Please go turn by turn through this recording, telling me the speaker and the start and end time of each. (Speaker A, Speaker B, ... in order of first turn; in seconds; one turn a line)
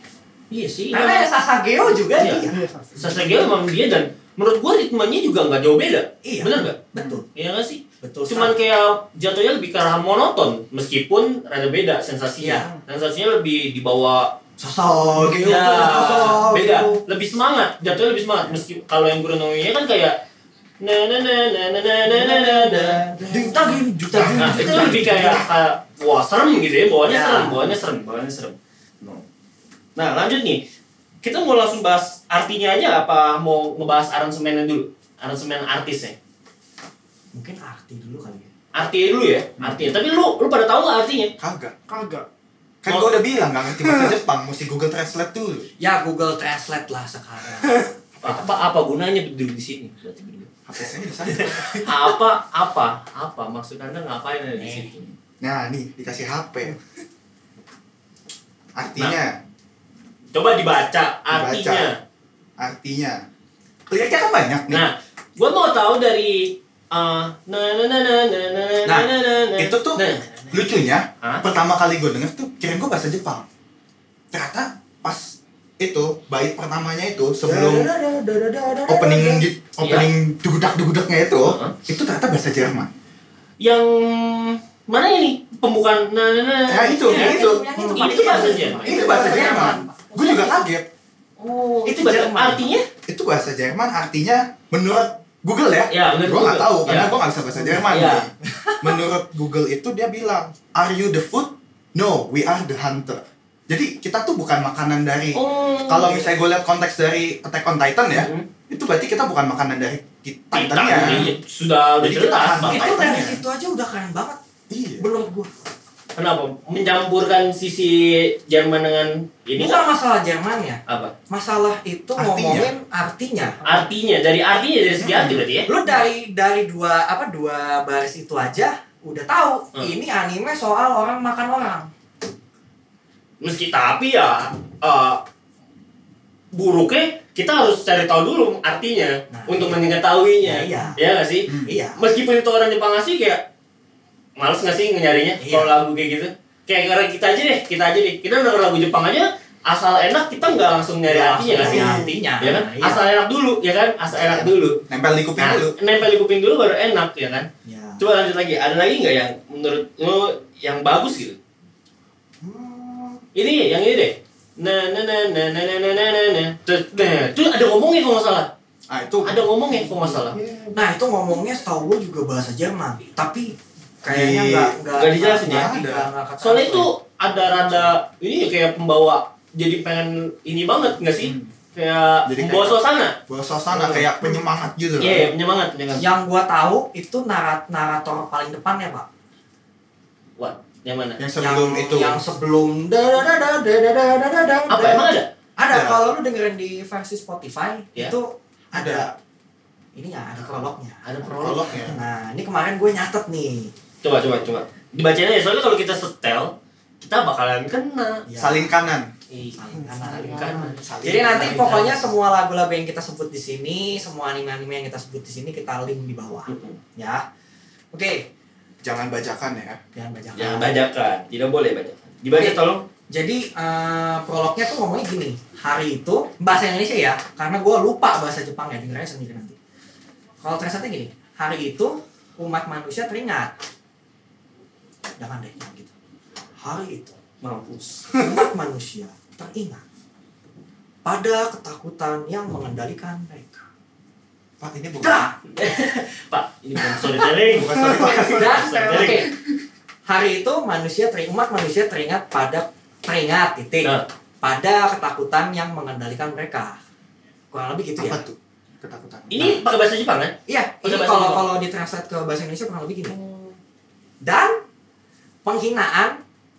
Speaker A: 0.5-1.3
Speaker B: 0.9-2.6
Speaker A: 2.1-14.3
Speaker C: 2.5-3.5
Speaker B: 6.2-7.2
Speaker B: 8.0-8.6
Speaker B: 12.4-12.8
Speaker B: 14.6-17.0
Speaker A: 15.2-20.2
Speaker A: 20.8-23.0
Speaker B: 22.1-25.1
Speaker D: 23.3-25.5
Speaker A: 24.3-29.2
Speaker B: 27.0-27.7
Speaker A: 29.9-30.6
Speaker A: 31.2-36.2
Speaker B: 37.3-38.5
Speaker A: 38.7-41.3
Speaker D: 39.6-39.9
Speaker D: 41.4-41.7
Speaker C: 41.9-42.3
Speaker D: 42.8-45.7
Speaker C: 43.8-44.1
Speaker B: 45.8-48.4
Speaker A: 48.2-50.5
Speaker D: 50.6-51.9
Speaker A: 51.8-55.1
Speaker B: 54.6-54.9
Speaker D: 55.4-56.8
Speaker D: 58.8-59.4
Speaker A: 60.3-62.0
Speaker D: 61.3-61.9
Speaker D: 62.6-63.2
Speaker D: 63.9-64.8
Speaker A: 64.7-71.4
Speaker D: 69.6-73.5
Speaker D: 74.3-77.9
Speaker B: 77.5-79.4
Speaker D: 78.9-82.9
Speaker A: 79.8-80.1
Speaker A: 81.4-81.7
Speaker A: 83.6-89.8
Speaker D: 86.7-90.9
Speaker B: 87.0-90.5
Speaker A: 91.4-92.8
Speaker B: 91.8-92.7
Speaker D: 93.1-111.3
Speaker A: 95.9-97.2
Speaker A: 97.8-98.3
Speaker A: 105.3-106.3
Speaker A: 108.1-108.5
Speaker A: 110.5-113.0
Speaker B: 110.9-111.3
Speaker D: 112.0-113.4
Speaker B: 112.5-114.4
Speaker D: 114.7-115.1
Speaker B: 115.0-115.5
Speaker A: 116.2-119.8
Speaker B: 119.6-123.6
Speaker A: 120.9-121.1
Speaker D: 122.2-122.7
Speaker A: 123.6-125.7
Speaker D: 125.0-125.4
Speaker B: 125.7-131.9
Speaker A: 133.4-135.2
Speaker A: 136.5-143.4
Speaker B: 139.3-139.9
Speaker B: 140.4-141.0
Speaker D: 141.5-141.7
Speaker B: 141.6-142.0
Speaker A: 144.4-154.8
Speaker B: 145.4-145.7
Speaker B: 151.0-153.0
Speaker C: 151.6-152.1
Speaker D: 154.1-155.7
Speaker A: 155.4-161.4
Speaker B: 157.6-158.0
Speaker B: 162.4-163.2
Speaker A: 163.3-168.5
Speaker D: 168.9-169.5
Speaker A: 169.2-170.4
Speaker C: 169.8-170.9
Speaker B: 170.7-177.9
Speaker D: 174.1-174.8
Speaker A: 175.0-175.8
Speaker D: 175.4-176.1
Speaker A: 176.4-183.2
Speaker D: 181.2-181.5
Speaker D: 182.2-185.3
Speaker C: 183.8-184.0
Speaker A: 185.0-186.1
Speaker B: 186.0-189.1
Speaker A: 190.4-191.2
Speaker D: 191.2-192.2
Speaker B: 191.4-199.1
Speaker A: 194.7-195.3
Speaker D: 195.7-196.0
Speaker D: 198.7-199.1
Speaker B: 199.9-201.0
Speaker A: 201.0-201.8
Speaker D: 201.2-202.0
Speaker B: 201.7-203.7
Speaker A: 204.0-208.2
Speaker B: 208.3-208.9
Speaker D: 208.4-209.1
Speaker A: 209.3-212.0
Speaker B: 209.5-217.2
Speaker C: 209.9-210.5
Speaker D: 210.8-212.0
Speaker A: 216.5-216.8
Speaker B: 217.9-218.3
Speaker D: 218.8-219.8
Speaker B: 219.9-220.8
Speaker A: 220.3-222.8
Speaker B: 222.3-229.6
Speaker B: 230.4-233.5
Speaker B: 235.2-235.9
Speaker B: 236.6-237.2
Speaker A: 237.4-238.1
Speaker B: 238.1-239.8
Speaker B: 241.0-243.6
Speaker D: 244.6-245.3
Speaker B: 245.0-245.3
Speaker A: 245.5-249.3
Speaker D: 247.5-248.4
Speaker C: 247.6-249.2
Speaker B: 248.3-249.3
Speaker B: 250.1-256.8
Speaker B: 257.5-258.2
Speaker D: 258.0-259.6
Speaker A: 259.3-261.4
Speaker B: 260.5-263.1
Speaker A: 263.1-263.6
Speaker B: 264.2-264.6
Speaker B: 265.4-266.2